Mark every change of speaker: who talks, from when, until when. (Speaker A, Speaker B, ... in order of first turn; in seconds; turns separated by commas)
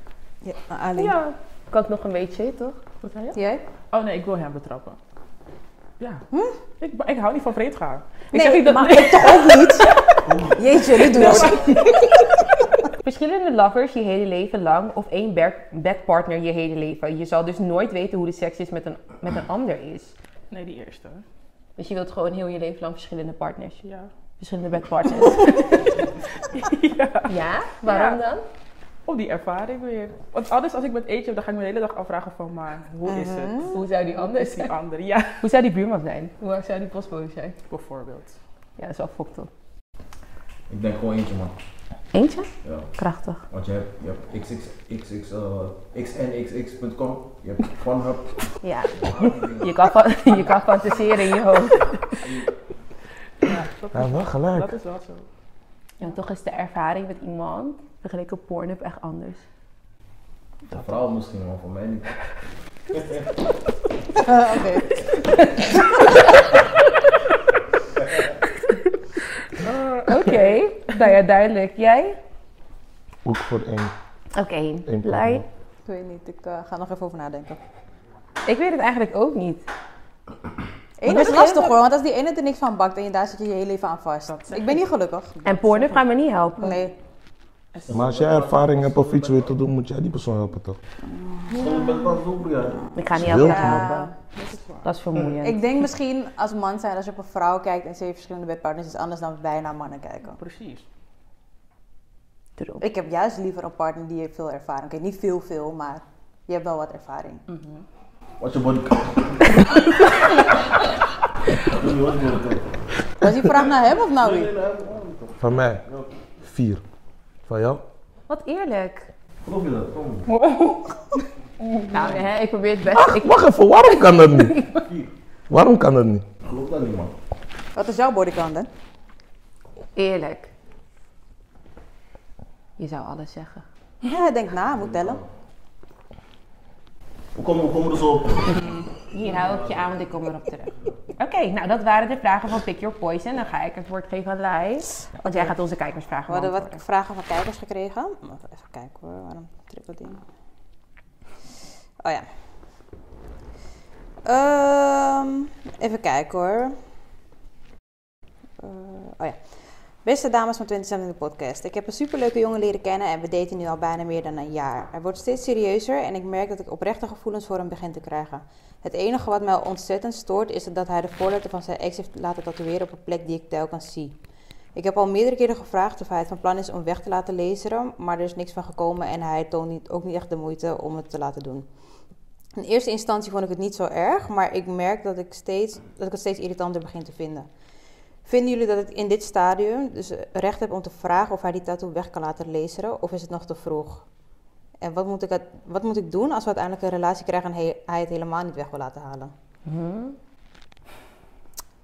Speaker A: 0.4-1.2, Speaker B: 1.0-2.8, Speaker C: 3.0-3.4, Speaker A: 3.3-3.6, Speaker C: 3.9-5.0, Speaker C: 6.0-6.2, Speaker C: 6.8-8.1, Speaker B: 8.3-9.5, Speaker A: 8.3-12.0, Speaker D: 10.2-10.7, Speaker C: 11.1-11.8, Speaker B: 11.1-12.1, Speaker B: 13.0-20.1, Speaker C: 20.5-21.2, Speaker B: 21.8-23.8, Speaker C: 23.8-24.1, Speaker B: 24.4-25.9, Speaker C: 26.5-27.3, Speaker B: 27.3-28.4, Speaker C: 27.8-28.2, Speaker C: 29.1-35.4, Speaker A: 33.1-33.8, Speaker B: 33.6-34.7, Speaker B: 35.4-37.5, Speaker C: 37.7-38.4, Speaker B: 38.8-39.5, Speaker D: 40.7-41.5, Speaker B: 42.1-43.4, Speaker D: 42.6-42.9, Speaker D: 43.5-48.3, Speaker B: 48.6-52.2, Speaker D: 48.9-49.8, Speaker D: 51.9-52.5, Speaker C: 53.4-55.3, Speaker E: 53.9-54.8, Speaker B: 56.0-59.4, Speaker D: 60.7-62.1, Speaker A: 64.2-65.0, Speaker C: 69.6-70.4, Speaker B: 70.0-72.2, Speaker E: 73.2-73.9, Speaker B: 74.3-75.4, Speaker E: 74.9-75.5, Speaker A: 75.9-77.6, Speaker B: 78.5-79.6, Speaker A: 81.0-85.4, Speaker B: 81.1-81.7, Speaker C: 84.3-86.0, Speaker B: 85.5-86.8, Speaker A: 86.6-87.0, Speaker C: 87.7-88.2, Speaker D: 87.9-89.5, Speaker E: 87.9-90.8, Speaker A: 91.3-91.6, Speaker D: 91.5-93.5, Speaker A: 92.9-94.1, Speaker B: 93.0-94.1, Speaker E: 93.2-93.8, Speaker C: 94.3-94.9, Speaker B: 94.8-95.6, Speaker A: 95.4-100.4, Speaker C: 100.4-100.8, Speaker B: 102.6-102.8, Speaker A: 102.8-107.4, Speaker C: 107.5-107.8, Speaker D: 108.4-109.6, Speaker D: 111.6-112.7, Speaker A: 113.2-114.5, Speaker D: 114.2-116.1, Speaker E: 115.4-115.8, Speaker E: 116.4-116.8, Speaker E: 117.5-117.8, Speaker B: 118.3-119.1, Speaker D: 119.4-120.3, Speaker C: 120.4-120.9, Speaker B: 121.9-123.5, Speaker E: 122.9-124.7, Speaker D: 124.7-125.1, Speaker E: 125.5-126.3, Speaker D: 126.4-127.1, Speaker A: 127.8-128.7, Speaker B: 130.0-130.5, Speaker B: 132.8-133.6, Speaker A: 134.0-135.2, Speaker D: 134.7-135.2, Speaker D: 137.3-138.6, Speaker B: 138.5-146.8, Speaker D: 139.3-139.8, Speaker A: 145.2-145.5, Speaker A: 146.3-150.2, Speaker A: 152.0-152.3, Speaker A: 154.2-156.8, Speaker A: 158.6-159.4, Speaker A: 160.0-174.2, Speaker A: 174.8-181.7, Speaker A: 182.6-187.5, Speaker A: 188.2-194.0, Speaker A: 194.8-199.3, Speaker B: 199.7-200.2